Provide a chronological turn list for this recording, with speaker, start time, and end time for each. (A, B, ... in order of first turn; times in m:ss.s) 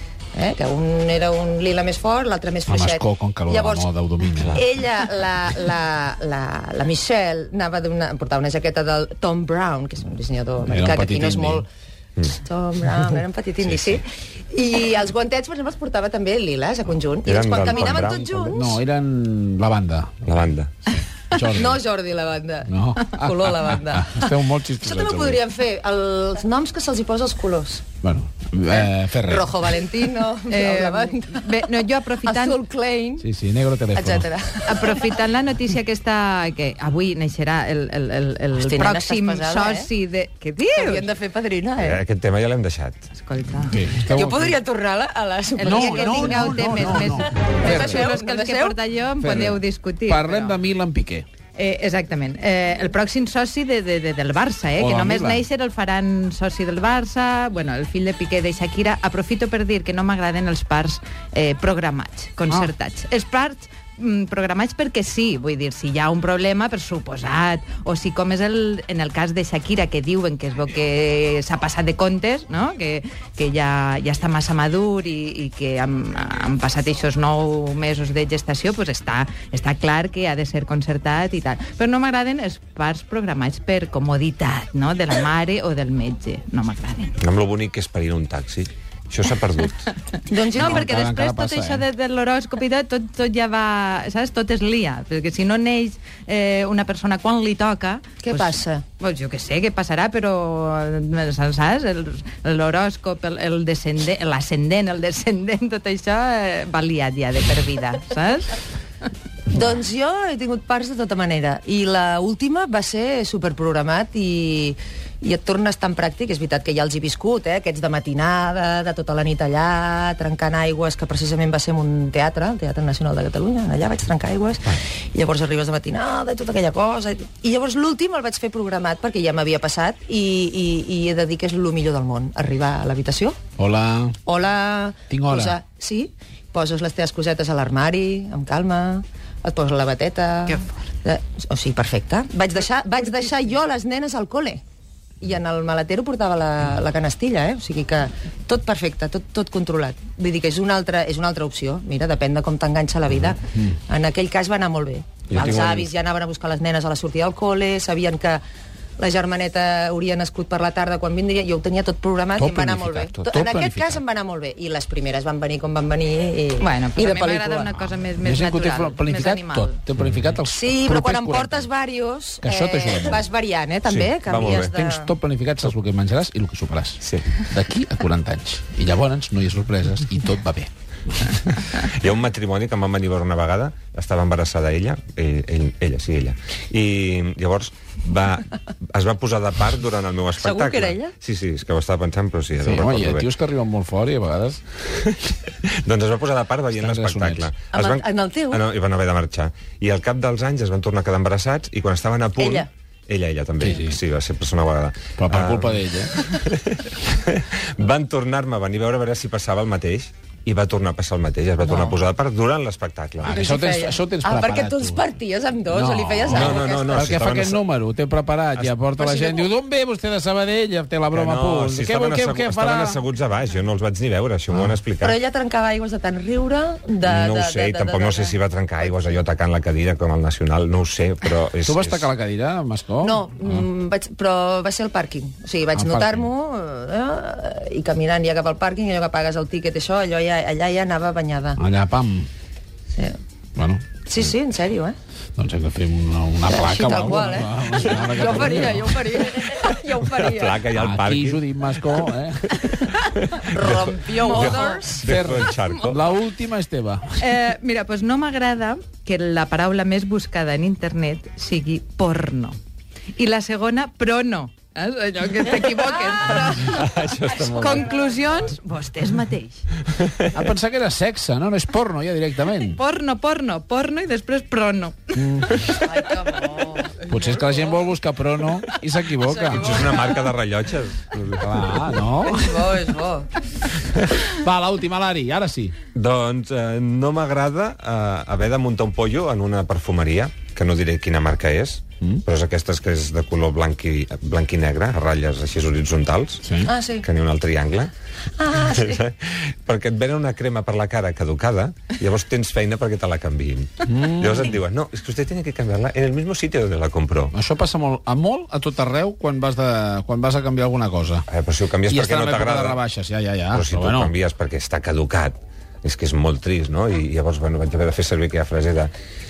0:00.4-0:03.9 A
0:02.7-0:04.6 B
0:04.5-0:11.7 A
0:10.6-0:11.6 B
0:12.3-0:18.8 A
0:17.2-0:18.4 C
0:18.5-0:20.3 B
0:20.2-0:20.7 C
0:20.9-0:21.8 B
0:21.5-0:27.8 A
0:22.7-0:25.4 B
0:28.0-0:29.6 B
0:28.7-0:33.3 A
0:30.5-0:32.6 D
0:33.2-0:34.3 B
0:33.9-0:35.2 A
0:34.7-0:41.1 D
0:38.6-0:39.9 A
0:40.8-0:42.0 A
0:41.8-0:43.0 C
0:43.2-0:43.8 D
0:43.7-0:44.4 B
0:44.0-0:48.8 A
0:45.6-0:50.6 D
0:45.6-0:48.0 B
0:49.2-0:51.3 B
0:51.6-1:27.2 D
0:54.8-0:55.4 B
1:27.2-1:29.9 C
1:30.3-1:31.0 A
1:30.5-1:48.6 D
1:30.6-1:31.8 B
1:38.2-1:38.8 A
1:49.5-2:13.4 A
2:13.6-2:14.2 B
2:14.3-2:24.6 A
2:15.1-2:15.6 B
2:20.5-2:20.8 D
2:25.2-2:38.4 A
2:35.3-2:35.9 C
2:39.0-2:47.8 A
2:42.4-2:44.0 B
2:43.0-2:43.3 C
2:46.6-2:49.8 D
2:48.2-2:51.7 B
2:50.0-2:50.3 C
2:50.5-2:55.1 A
2:52.4-2:53.2 B
2:53.9-2:54.7 C
2:54.4-3:00.7 B
2:57.0-2:57.4 C
3:01.4-3:13.3 C
3:10.4-3:11.1 A
3:12.6-3:14.6 B
3:14.9-3:33.3 C
3:16.7-3:17.5 B
3:17.7-3:18.6 A
3:22.4-3:22.7 A
3:23.6-3:24.0 B
3:25.2-3:26.1 B
3:33.2-3:35.0 B
3:33.2-3:37.2 A
3:35.7-3:43.0 B
3:36.3-3:37.6 C
3:39.0-3:39.5 A
3:41.1-3:45.2 C
3:45.0-3:49.2 A
3:47.1-3:52.1 C
3:51.6-3:53.7 B
3:53.0-4:01.6 A
3:55.8-3:56.3 B
4:01.6-4:02.3 B
4:03.6-4:04.0 B
4:04.1-4:05.0 A
4:05.4-4:09.0 B
4:06.5-4:10.6 A
4:10.0-4:16.1 C
4:10.8-4:12.6 B
4:13.5-4:15.1 A
4:14.1-4:14.9 D
4:15.0-4:17.2 B
4:17.2-4:22.6 D
4:23.2-4:29.7 D
4:26.1-4:26.6 A
4:26.4-4:27.9 C
4:27.5-4:28.3 A
4:30.3-4:32.8 B
4:32.6-4:35.2 D
4:35.2-4:35.6 B
4:35.8-4:37.8 A
4:37.1-4:39.9 B
4:39.2-4:40.2 A
4:39.5-4:41.9 C
4:41.4-4:42.7 B
4:42.2-4:43.3 A
4:44.3-4:45.7 B
4:46.0-4:56.4 C
4:56.4-4:56.7 B
4:56.6-4:57.1 A
4:57.0-4:57.9 C
4:58.4-4:59.0 A
4:58.7-5:07.3 C
5:03.8-5:04.6 B
5:07.3-5:11.3 B
5:11.3-5:12.8 C
5:11.9-5:14.1 B
5:13.5-5:18.9 C